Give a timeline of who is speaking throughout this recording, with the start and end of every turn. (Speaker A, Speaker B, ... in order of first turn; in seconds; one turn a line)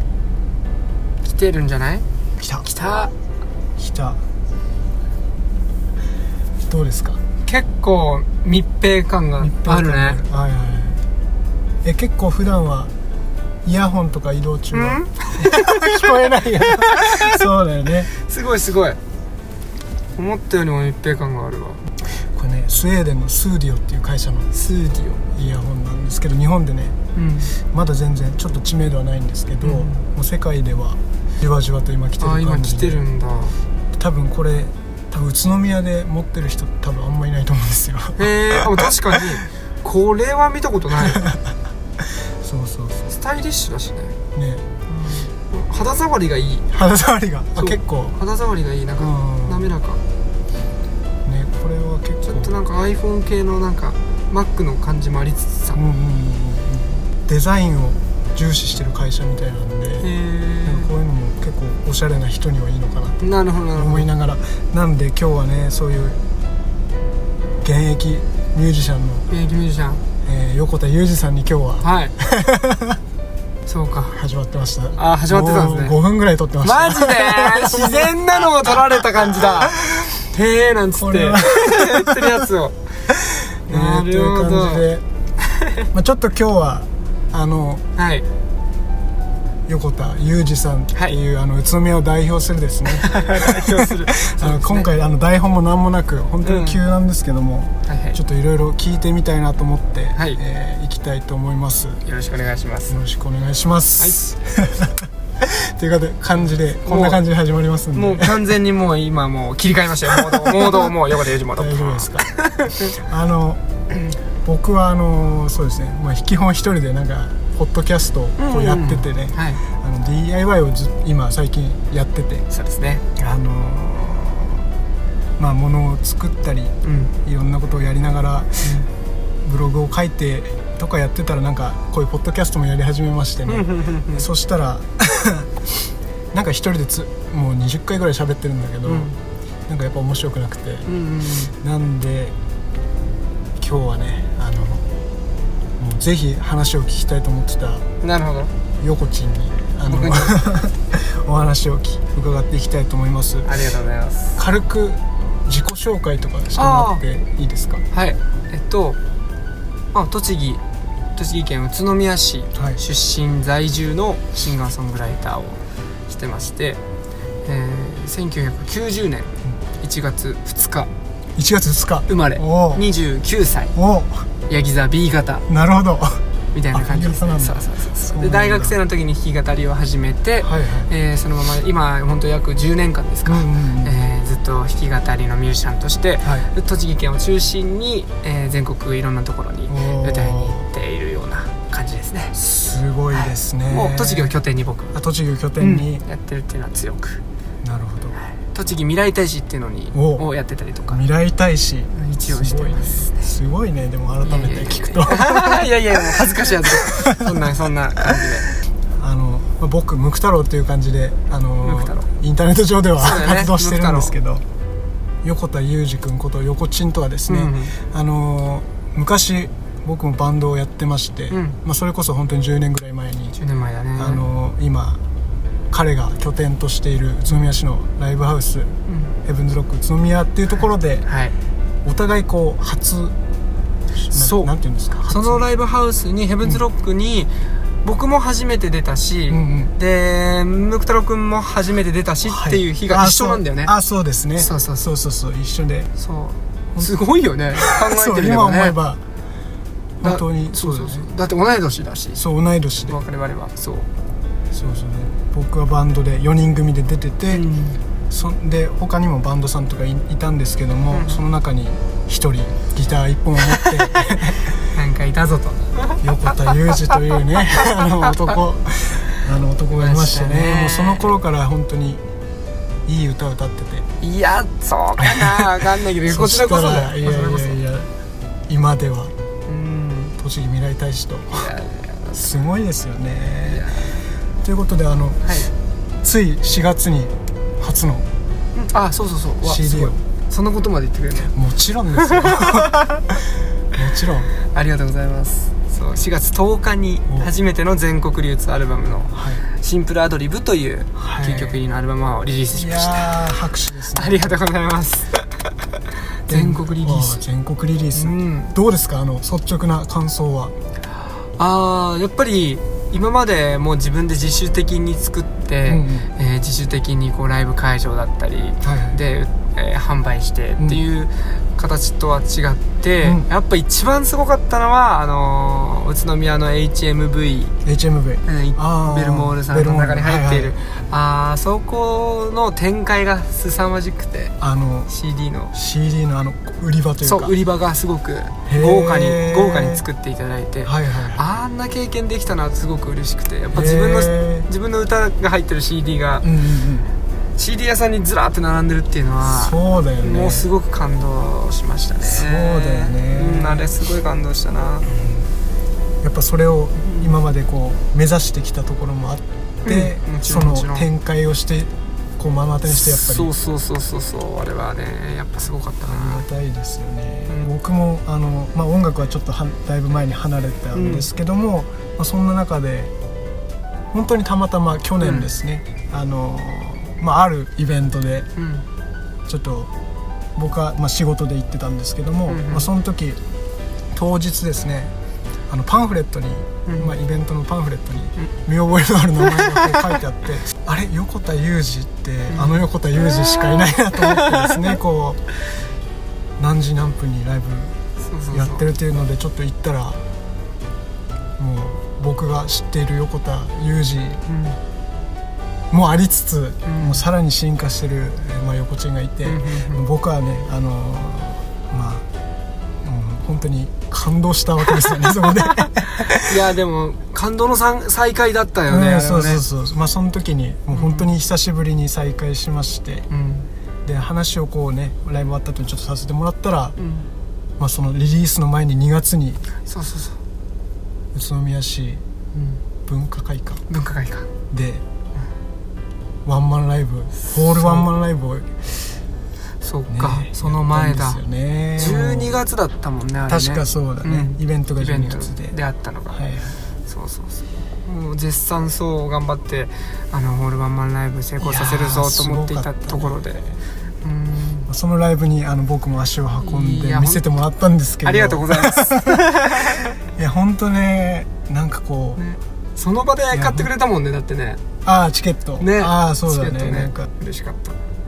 Speaker A: 1.2-2.0
Speaker B: 2.4-2.7
Speaker A: 2.6-3.1
Speaker B: 3.8-4.2
Speaker B: 6.7-7.2
Speaker A: 7.5-10.2
Speaker B: 9.4-11.0
Speaker B: 11.8-12.9
Speaker B: 13.6-18.1
Speaker A: 14.7-17.3
Speaker A: 18.1-19.0
Speaker A: 20.2-21.8
Speaker B: 22.1-24.5
Speaker A: 24.5-25.2
Speaker B: 25.3-27.0
Speaker A: 27.1-27.5
Speaker B: 27.6-33.0
Speaker A: 29.6-30.0
Speaker A: 32.2-33.6
Speaker B: 33.9-39.2
Speaker A: 38.2-41.2
Speaker B: 41.0-43.1
Speaker A: 43.1-44.2
Speaker B: 44.4-44.7
Speaker A: 44.9-46.7
Speaker B: 46.7-48.2
Speaker A: 47.6-50.0
Speaker B: 49.0-49.7
Speaker B: 51.2-52.6
Speaker A: 52.2-55.8
Speaker B: 55.7-60.1
Speaker A: 60.0-60.9
Speaker B: 60.6-63.2
Speaker A: 63.2-64.1
Speaker B: 63.8-66.2
Speaker B: 67.6-69.3
Speaker A: 69.3-70.0
Speaker B: 70.2-73.0
Speaker A: 71.8-72.1
Speaker A: 73.7-74.2
Speaker B: 74.1-78.1
Speaker A: 75.0-76.0
Speaker A: 76.6-82.8
Speaker B: 78.7-79.9
Speaker B: 81.0-82.3
Speaker B: 83.7-85.0
Speaker A: 83.7-84.8
Speaker B: 85.9-87.8
Speaker A: 88.0-88.2
Speaker B: 89.7-102.0
Speaker A: 93.0-94.9
Speaker A: 96.4-96.8
Speaker A: 97.9-98.2
Speaker A: 100.2-100.4
Speaker A: 102.0-102.9
Speaker B: 102.9-108.5
Speaker A: 104.0-104.3
Speaker A: 106.4-107.2
Speaker A: 108.0-112.8
Speaker B: 110.3-110.9
Speaker B: 111.5-113.6
Speaker B: 114.4-122.5
Speaker A: 118.4-119.6
Speaker A: 122.5-123.0
Speaker B: 123.2-124.7
Speaker B: 125.4-128.8
Speaker A: 126.8-127.1
Speaker A: 128.6-128.9
Speaker B: 129.4-135.7
Speaker A: 133.5-134.3
Speaker B: 136.3-139.1
Speaker A: 138.8-139.2
Speaker B: 139.7-140.9
Speaker A: 140.9-141.5
Speaker B: 141.5-142.4
Speaker B: 143.6-144.9
Speaker B: 145.8-147.9
Speaker A: 148.0-148.5
Speaker B: 148.8-153.6
Speaker A: 149.9-150.4
Speaker A: 153.4-154.4
Speaker B: 154.4-157.8
Speaker A: 156.5-157.0
Speaker A: 157.9-159.0
Speaker A: 159.9-160.6
Speaker A: 161.2-166.8
Speaker B: 162.6-162.8
Speaker A: 167.4-170.9
Speaker B: 171.4-172.9
Speaker A: 172.1-173.7
Speaker B: 173.8-174.3
Speaker A: 174.5-175.4
Speaker B: 175.5-178.8
Speaker A: 176.5-192.3
Speaker B: 180.4-180.9
Speaker B: 183.2-184.0
Speaker B: 186.2-186.5
Speaker B: 189.7-190.7
Speaker B: 192.3-194.4
Speaker A: 193.1-194.9
Speaker B: 194.9-196.0
Speaker A: 195.6-197.2
Speaker B: 197.6-198.2
Speaker A: 198.3-201.0
Speaker B: 199.9-200.3
Speaker B: 200.9-207.5
Speaker A: 201.9-203.3
Speaker A: 204.2-208.5
Speaker B: 209.0-214.4
Speaker A: 211.6-212.1
Speaker A: 213.0-214.2
Speaker B: 215.2-223.4
Speaker A: 217.3-217.8
Speaker A: 221.3-221.6
Speaker A: 223.3-224.2
Speaker B: 224.0-225.0
Speaker B: 225.7-231.1
Speaker A: 228.9-229.1
Speaker A: 231.1-231.3
Speaker B: 231.8-233.2
Speaker B: 234.1-235.4
Speaker A: 234.1-234.5
Speaker A: 235.1-243.7
Speaker B: 239.3-239.7
Speaker B: 242.2-245.9
Speaker A: 244.4-244.8
Speaker A: 246.0-248.8
Speaker B: 247.6-249.0
Speaker B: 250.0-251.1
Speaker A: 250.0-252.2
Speaker B: 252.2-253.0
Speaker A: 252.9-253.9
Speaker B: 254.5-257.4
Speaker A: 257.3-257.8
Speaker B: 258.1-264.6
Speaker A: 260.9-261.2
Speaker A: 264.7-266.0
Speaker B: 266.0-272.0
Speaker A: 269.7-271.1
Speaker B: 272.9-273.9
Speaker A: 274.0-277.6
Speaker B: 275.0-277.9
Speaker B: 278.5-279.1
Speaker A: 279.5-280.1
Speaker B: 280.2-281.5
Speaker A: 281.4-282.2
Speaker B: 282.1-283.8
Speaker A: 283.5-284.0
Speaker B: 284.4-285.5
Speaker A: 285.2-285.5
Speaker B: 286.0-288.1
Speaker A: 288.6-291.3
Speaker B: 289.4-290.0
Speaker B: 291.3-293.2
Speaker A: 292.1-292.7
Speaker B: 293.8-294.3
Speaker A: 294.5-303.3
Speaker B: 299.1-299.4
Speaker B: 301.0-301.6
Speaker B: 302.5-304.4
Speaker A: 303.9-305.3
Speaker A: 306.3-307.2
Speaker B: 306.3-310.5
Speaker A: 307.9-308.6
Speaker A: 311.2-327.5
Speaker B: 315.7-316.1
Speaker B: 318.6-319.0
Speaker B: 327.6-330.6
Speaker A: 328.2-334.3
Speaker B: 334.4-334.9
Speaker A: 334.9-335.5
Speaker B: 335.5-337.4
Speaker A: 337.0-346.3
Speaker B: 338.5-339.9
Speaker B: 340.6-341.2
Speaker B: 343.5-344.5
Speaker B: 346.2-346.9
Speaker A: 347.4-354.9
Speaker B: 349.2-350.5
Speaker B: 352.0-353.7
Speaker B: 354.9-355.3
Speaker B: 356.0-363.3
Speaker A: 356.8-357.1
Speaker A: 359.6-360.9
Speaker A: 362.7-366.2
Speaker B: 365.8-372.9
Speaker A: 370.7-371.1
Speaker B: 373.9-378.3
Speaker A: 375.0-375.3
Speaker A: 378.4-378.6
Speaker B: 379.3-379.7
Speaker B: 380.4-383.2
Speaker A: 382.3-382.7
Speaker B: 383.9-384.9
Speaker B: 385.5-395.2
Speaker A: 392.3-392.6
Speaker A: 394.0-394.6
Speaker B: 396.4-397.8
Speaker A: 398.0-398.6
Speaker B: 398.3-400.1
Speaker B: 401.4-404.2
Speaker A: 404.3-404.6
Speaker B: 405.7-412.1
Speaker A: 406.7-407.1
Speaker A: 409.2-409.8
Speaker B: 412.8-416.3
Speaker A: 415.5-419.4
Speaker B: 418.7-423.1
Speaker A: 420.7-421.1
Speaker A: 423.1-423.5
Speaker B: 423.9-426.8
Speaker A: 426.8-427.1
Speaker B: 427.6-429.5
Speaker A: 429.6-430.2
Speaker B: 431.1-432.0
Speaker A: 432.3-432.6
Speaker B: 432.9-433.6
Speaker A: 433.7-434.3
Speaker B: 434.5-434.8
Speaker B: 436.2-438.7
Speaker A: 437.4-437.9
Speaker A: 439.6-441.2
Speaker B: 439.9-442.4
Speaker A: 441.8-446.2
Speaker B: 443.3-445.6
Speaker B: 446.1-446.6
Speaker A: 446.9-453.4
Speaker B: 451.4-453.6
Speaker A: 454.0-454.7
Speaker B: 454.7-462.2
Speaker A: 456.4-457.2
Speaker A: 458.0-459.9
Speaker A: 462.2-464.6
Speaker B: 463.3-463.7
Speaker B: 464.8-467.1
Speaker A: 465.6-467.8